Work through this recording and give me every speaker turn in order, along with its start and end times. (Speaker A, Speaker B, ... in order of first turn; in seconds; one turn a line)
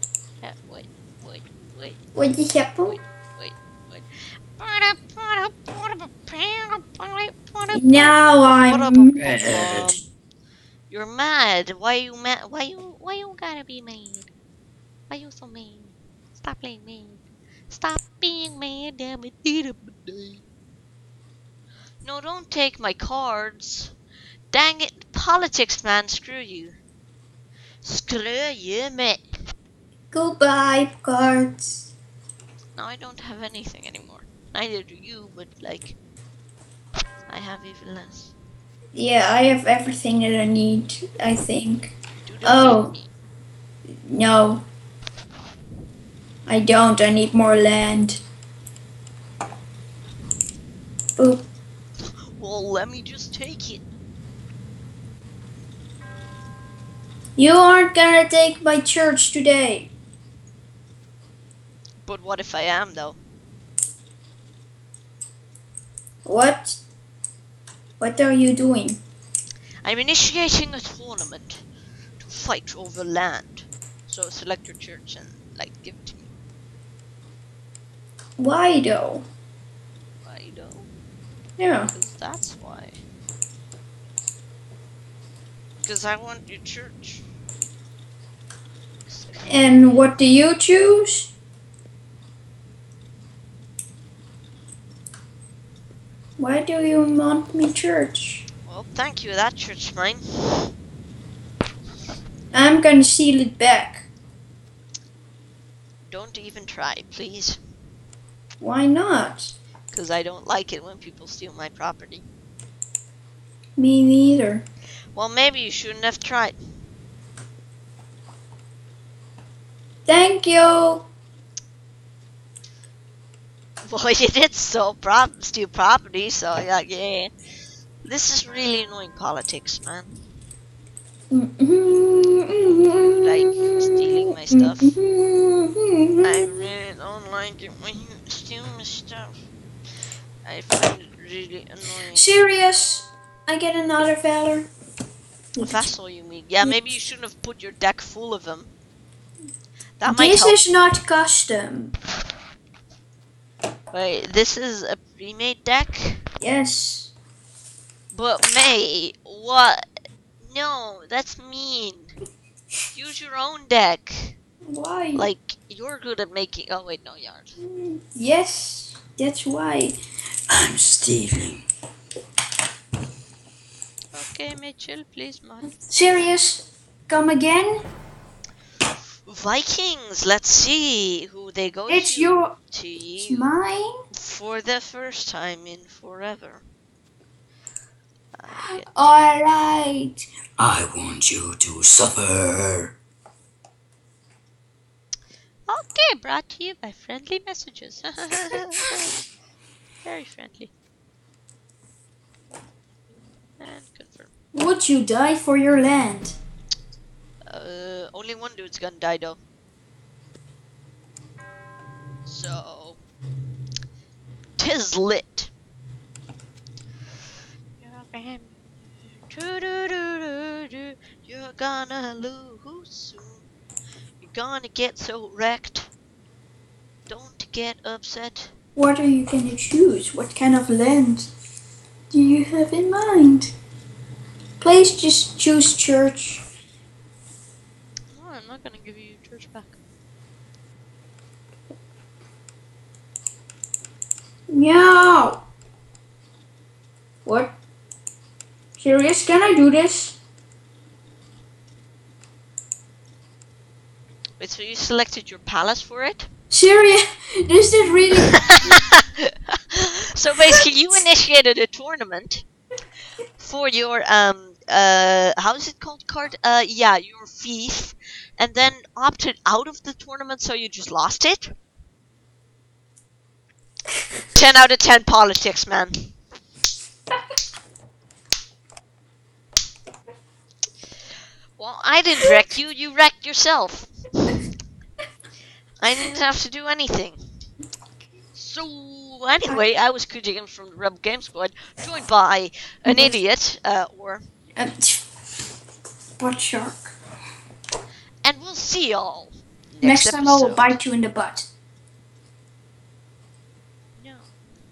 Speaker A: 0.4-2.0
Speaker B: 2.1-3.0
Speaker A: 2.9-10.0
Speaker B: 7.7-9.3
Speaker C: 9.2-9.9
Speaker A: 10.9-14.3
Speaker A: 15.1-20.4
Speaker A: 22.0-23.9
Speaker A: 24.5-26.8
Speaker A: 27.8-29.2
Speaker B: 30.1-31.9
Speaker A: 32.8-36.0
Speaker A: 37.3-38.3
Speaker B: 38.9-42.9
Speaker A: 42.2-43.1
Speaker B: 43.9-44.6
Speaker B: 46.5-48.2
Speaker B: 51.2-51.5
Speaker A: 52.4-53.9
Speaker B: 57.4-59.9
Speaker A: 62.0-63.2
Speaker B: 66.2-66.8
Speaker B: 68.0-69.0
Speaker A: 69.8-71.6
Speaker A: 72.2-76.3
Speaker B: 78.4-79.2
Speaker A: 80.2-80.9
Speaker B: 81.6-81.9
Speaker A: 81.9-83.0
Speaker A: 85.8-87.2
Speaker A: 89.1-90.1
Speaker B: 89.5-91.3
Speaker B: 96.4-98.5
Speaker A: 98.7-100.7
Speaker B: 102.5-104.1
Speaker A: 106.0-107.6
Speaker B: 108.6-109.5
Speaker A: 109.9-112.2
Speaker B: 113.8-114.6
Speaker A: 115.1-116.6
Speaker B: 120.1-121.1
Speaker A: 123.8-127.3
Speaker A: 128.0-130.2
Speaker B: 131.3-136.4
Speaker A: 133.0-134.9
Speaker A: 136.2-139.3
Speaker A: 140.4-142.3
Speaker B: 142.1-144.7
Speaker B: 145.5-145.9
Speaker A: 145.6-148.7
Speaker A: 150.0-150.6
Speaker B: 150.1-151.9
Speaker A: 153.9-156.2
Speaker B: 156.4-157.1
Speaker A: 158.1-159.8
Speaker A: 160.4-162.1
Speaker A: 162.9-164.3
Speaker B: 164.7-165.3
Speaker A: 165.2-167.6
Speaker B: 167.6-169.9
Speaker C: 170.5-171.6
Speaker A: 174.1-175.8
Speaker B: 175.9-177.8
Speaker A: 179.2-183.5
Speaker B: 181.9-182.5
Speaker B: 183.2-183.9
Speaker A: 184.1-186.6
Speaker A: 188.3-188.9
Speaker B: 188.5-190.2
Speaker C: 190.6-192.9
Speaker A: 195.7-199.1
Speaker A: 200.0-200.7
Speaker A: 203.6-204.3
Speaker B: 204.5-206.4
Speaker A: 207.4-209.4
Speaker A: 212.2-213.0
Speaker A: 214.6-215.5
Speaker A: 217.8-218.6
Speaker A: 219.2-223.5
Speaker A: 224.2-225.9
Speaker A: 227.1-228.5
Speaker B: 228.8-231.3
Speaker B: 232.1-233.5
Speaker B: 234.6-236.4
Speaker A: 238.1-239.8
Speaker B: 244.5-245.4
Speaker B: 247.2-247.5
Speaker B: 248.8-250.2
Speaker A: 254.4-256.3
Speaker B: 256.5-258.7
Speaker A: 258.5-262.4
Speaker A: 263.4-271.5
Speaker A: 274.3-276.1
Speaker A: 281.6-284.3
Speaker A: 285.8-287.2
Speaker A: 288.3-294.3
Speaker B: 292.9-293.2
Speaker B: 294.6-295.0
Speaker B: 296.2-296.9
Speaker A: 298.2-300.8
Speaker B: 299.8-301.5
Speaker A: 304.0-304.3